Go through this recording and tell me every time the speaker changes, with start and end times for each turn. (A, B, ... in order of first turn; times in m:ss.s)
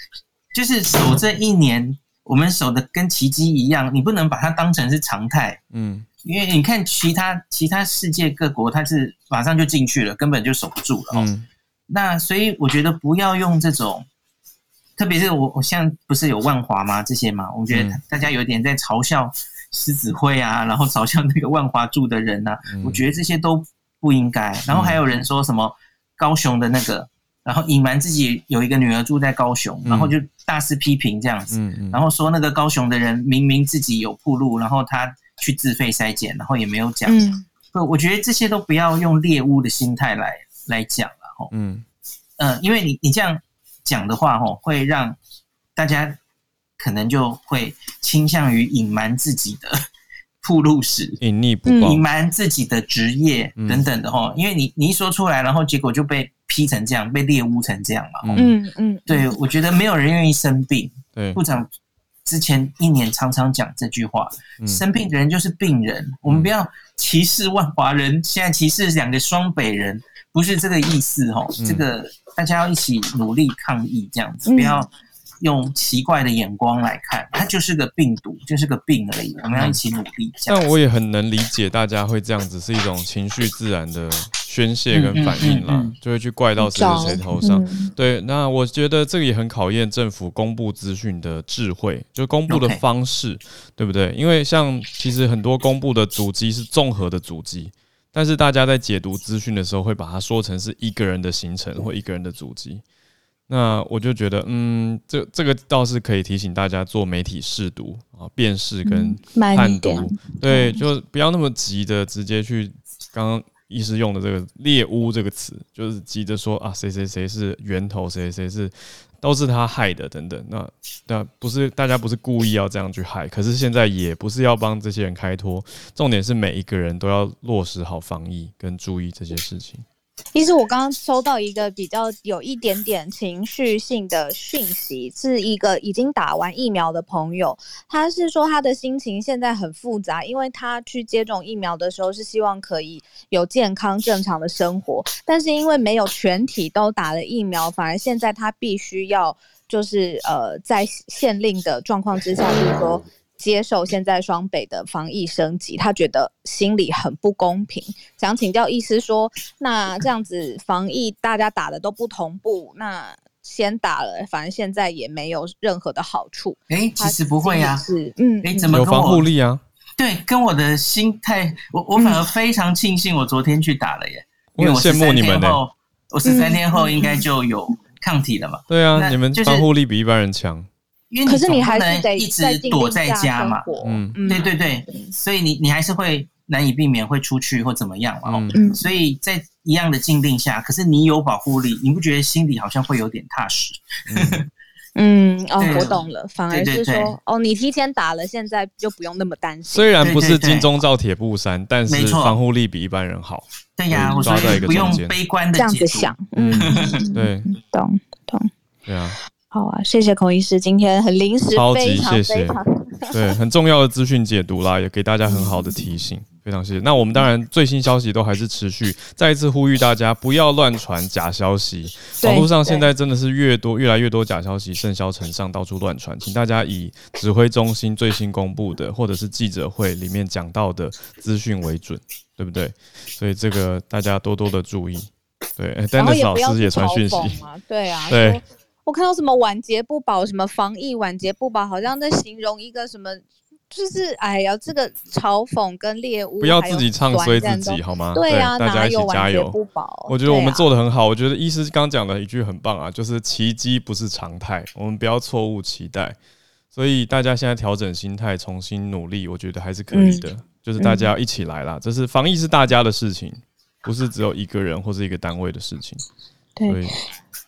0:00.5-0:05.6 A
0:05.7-0:06.1 B
0:06.2-0:11.3 A
0:11.1-0:11.5 B
0:11.9-0:14.1 A
0:15.0-0:37.2 A
0:17.7-0:18.0 B
0:22.7-0:23.0 B
0:24.7-0:25.0 B
0:29.8-0:30.1 B
0:31.5-0:32.0 B
0:37.1-0:37.4 C
0:37.7-0:41.5 A
0:41.5-0:41.8 B
0:42.4-0:45.2 A
0:45.8-0:46.2 A
0:46.8-0:49.8 A
0:50.4-0:51.2 A
0:51.2-0:52.0 B
0:51.7-0:52.0 C
0:51.8-0:58.4 A
0:53.6-0:53.8 B
0:58.2-0:58.5 B
0:58.4-0:59.3 C
0:59.1-1:01.7 A
1:02.2-1:14.9 A
1:04.6-1:04.8 B
1:11.6-1:11.8 B
1:14.5-1:14.8 C
1:15.4-1:20.7 A
1:19.5-1:19.8 B
1:20.5-1:42.8 B
1:24.9-1:25.9 A
1:26.6-1:27.9 C
1:32.5-1:32.8 A
1:43.5-2:09.8 B
1:48.8-1:50.8 C
2:10.3-2:48.7 C
2:46.7-2:47.8 A
2:48.4-2:49.3 A
2:48.7-2:49.6 B
2:50.0-2:59.7 A
2:52.0-2:52.2 C
2:54.5-2:55.6 B
2:56.2-2:57.2 C
2:58.7-3:00.7 B
3:01.1-3:03.7 A
3:01.2-3:05.1 C
3:03.8-3:04.2 B
3:04.2-3:14.5 A
3:08.2-3:08.6 B
3:08.5-3:08.8 C
3:14.1-3:14.4 B
3:15.0-3:20.0 C
3:15.6-3:17.1 A
3:19.7-3:25.1 B
3:20.0-3:20.7 A
3:21.9-3:22.4 A
3:23.8-3:27.0 A
3:24.2-3:24.7 C
3:25.5-3:28.5 C
3:26.3-3:27.5 B
3:28.9-3:29.2 B
3:29.5-3:33.2 C
3:31.5-3:32.6 B
3:33.1-3:57.4 B
3:35.2-3:35.8 C
3:42.2-3:42.9 C
3:55.9-4:10.6 C
3:58.1-3:58.4 B
4:06.4-4:16.2 B
4:16.7-4:26.0 B
4:19.9-4:20.2 C
4:20.8-4:21.1 C
4:26.6-4:27.0 C
4:26.7-4:27.0 B